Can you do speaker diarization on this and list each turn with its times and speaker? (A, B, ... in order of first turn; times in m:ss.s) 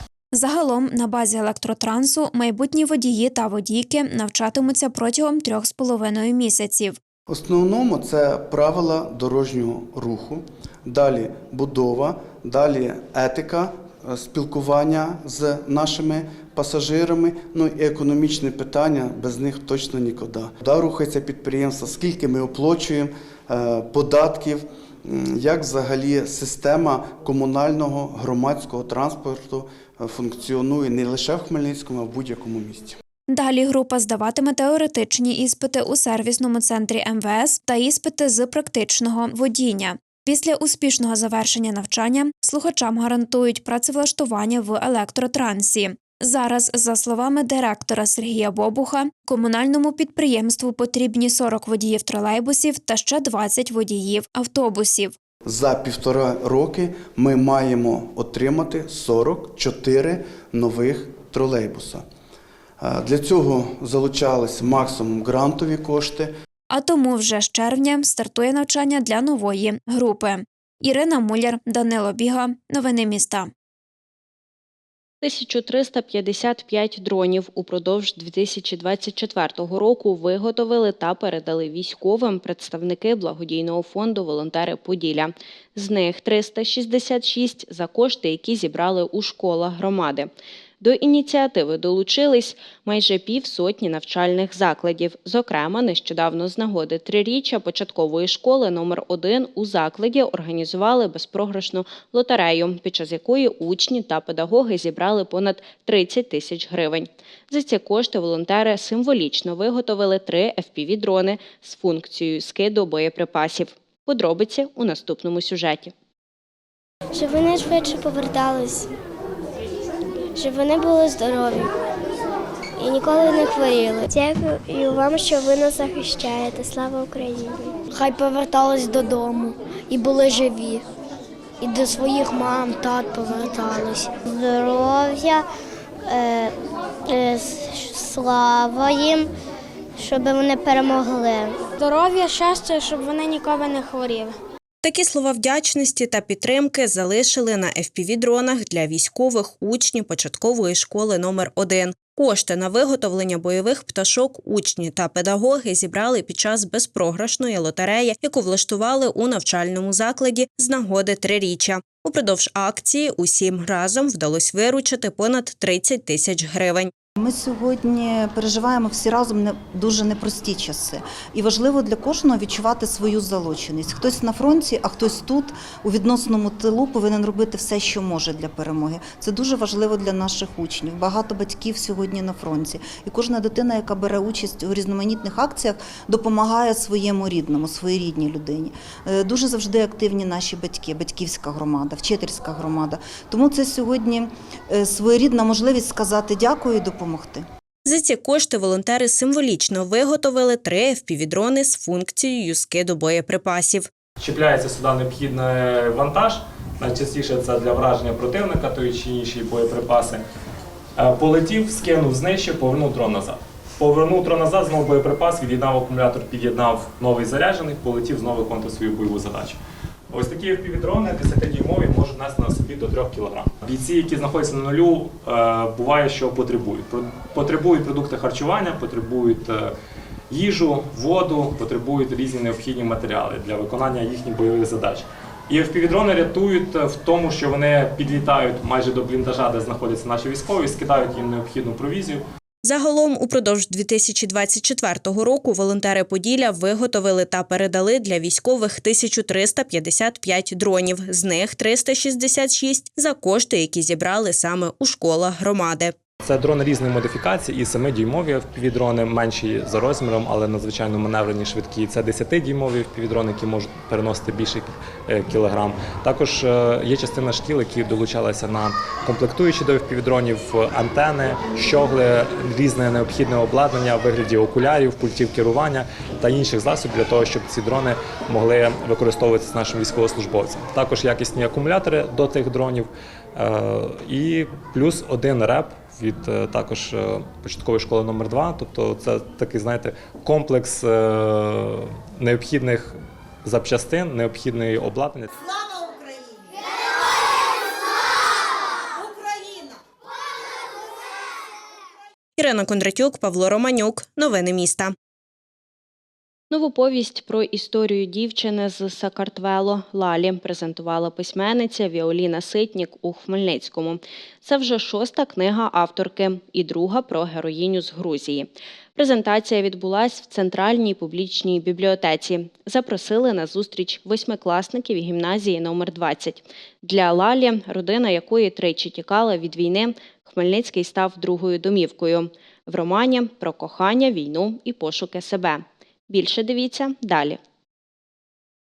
0:00.3-0:07.0 A
0:07.3-0:33.0 B
0:33.3-0:55.2 A
0:55.5-1:02.0 B
1:02.8-1:06.3 B
1:06.7-1:13.5 A
1:15.2-1:55.9 C
1:57.1-1:58.9 D
2:00.4-2:01.7 D
2:02.8-2:10.8 D
2:11.6-2:15.4 D
2:16.1-2:16.5 D
2:17.1-2:19.3 D
2:20.0-2:21.6 D
2:22.3-2:24.3 D
2:24.9-2:46.9 C
2:47.2-3:17.4 E
3:17.9-3:23.9 C
3:24.2-3:30.2 F
3:31.0-3:39.6 F
3:40.1-3:49.7 F
3:50.3-4:02.2 F
4:02.6-4:15.9 C
4:16.2-4:55.3 F
5:02.4-5:04.9 C
5:06.5-5:37.4 C